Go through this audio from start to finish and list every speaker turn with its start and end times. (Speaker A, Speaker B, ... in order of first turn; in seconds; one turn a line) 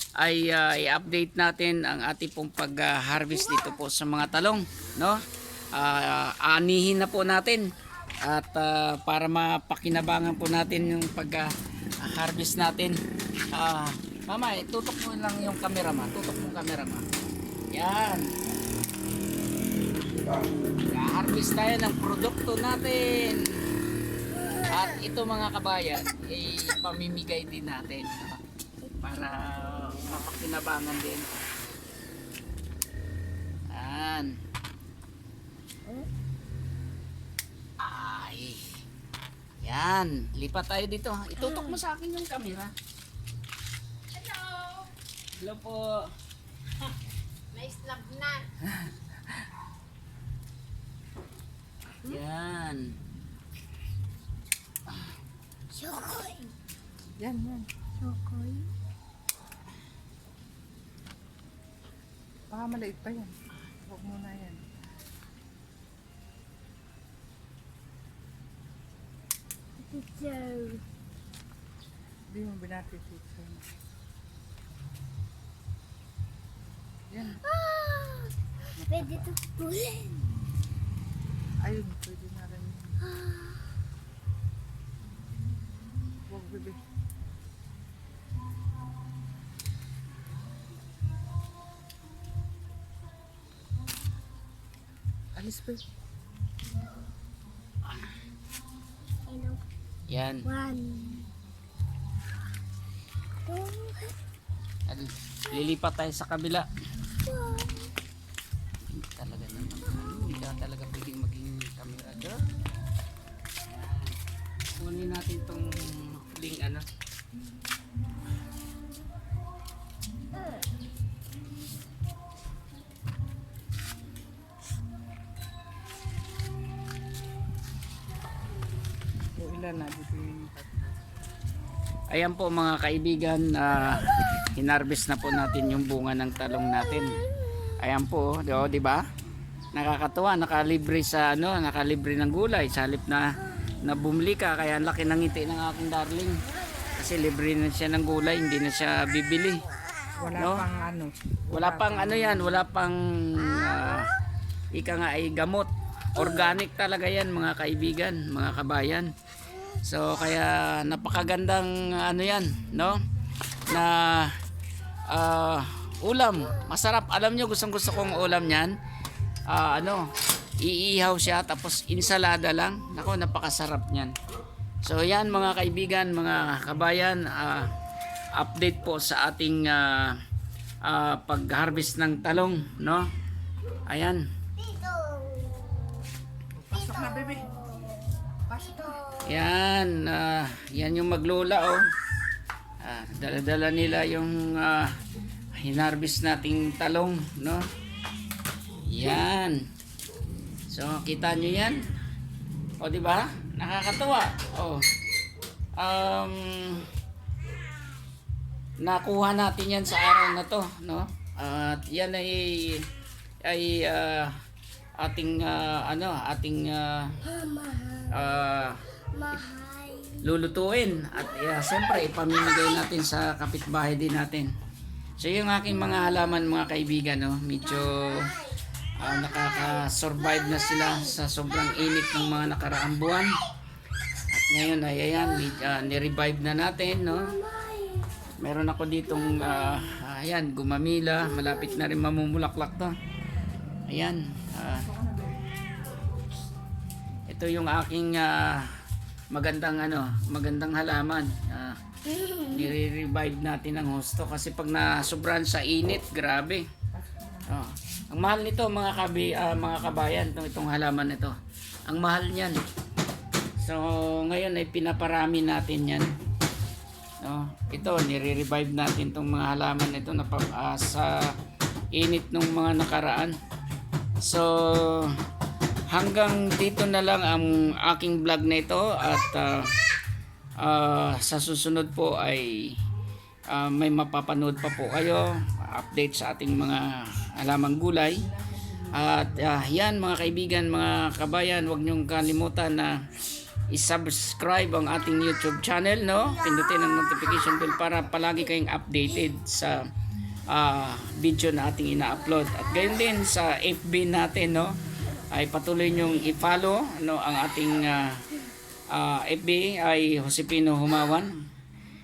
Speaker A: 0.2-5.2
Speaker A: 5.7-7.7
Speaker A: 8.2-13.0
Speaker A: 13.5-17.0
Speaker A: 17.7-18.3
Speaker A: 20.9-23.4
Speaker A: 24.6-28.4
Speaker A: 28.9-31.4
Speaker A: 33.7-34.3
Speaker A: 37.8-38.6
Speaker A: 39.6-42.7
Speaker A: 45.4-46.0
Speaker B: 47.6-48.3
Speaker A: 52.0-52.9
Speaker B: 55.7-56.5
Speaker C: 57.2-57.7
Speaker B: 58.0-58.7
Speaker C: 62.5-64.6
Speaker B: 69.8-70.8
Speaker C: 72.3-73.7
Speaker C: 77.1-77.4
Speaker B: 77.4-80.4
Speaker C: 78.8-79.3
Speaker C: 81.6-83.0
Speaker B: 83.1-83.6
Speaker C: 86.2-86.8
Speaker C: 95.3-95.8
Speaker B: 99.3-99.6
Speaker A: 100.1-100.5
Speaker B: 100.5-101.3
Speaker B: 103.5-104.2
Speaker A: 104.9-106.7
Speaker B: 107.2-107.9
Speaker A: 108.8-112.4
Speaker A: 113.7-114.2
Speaker A: 114.8-116.8
Speaker C: 129.4-130.9
Speaker A: 132.1-137.2
Speaker A: 137.8-139.0
Speaker A: 139.7-143.2
Speaker A: 143.8-146.3
Speaker A: 146.9-149.6
Speaker C: 150.2-152.6
Speaker A: 150.3-150.7
Speaker A: 151.5-154.1
Speaker A: 154.7-159.1
Speaker A: 159.8-163.0
Speaker A: 163.7-164.3
Speaker A: 165.1-168.7
Speaker A: 169.5-170.1
Speaker A: 170.6-174.1
Speaker A: 174.8-177.7
Speaker A: 178.3-180.1
Speaker A: 180.8-183.1
Speaker A: 183.9-184.2
Speaker B: 184.6-185.7
Speaker C: 186.6-187.4
Speaker B: 186.9-187.4
Speaker C: 188.5-188.8
Speaker A: 189.2-191.8
Speaker A: 192.8-194.9
Speaker A: 195.6-197.7
Speaker A: 198.9-199.6
Speaker A: 200.7-201.8
Speaker A: 202.8-204.8
Speaker A: 205.8-206.8
Speaker A: 208.8-212.8
Speaker A: 213.4-214.3
Speaker A: 215.0-217.2
Speaker B: 217.5-218.0
Speaker A: 218.1-218.8
Speaker B: 219.3-220.2
Speaker A: 220.2-224.5
Speaker A: 225.2-228.3
Speaker A: 229.0-233.3
Speaker A: 234.3-237.4
Speaker A: 238.4-242.9
Speaker A: 243.9-244.9
Speaker C: 244.9-245.2
Speaker A: 247.3-248.7
Speaker A: 249.3-251.8
Speaker A: 252.3-256.6
Speaker C: 257.0-257.2
Speaker A: 257.5-261.3
Speaker A: 261.9-262.6
Speaker A: 263.6-266.1
Speaker A: 267.2-271.3
Speaker A: 271.9-273.4
Speaker A: 274.2-275.1
Speaker A: 275.9-279.7
Speaker A: 280.6-282.8
Speaker A: 283.5-288.3
Speaker A: 288.9-293.0
Speaker A: 293.7-299.8
Speaker A: 300.5-304.8
Speaker A: 305.3-308.2
Speaker A: 308.9-311.3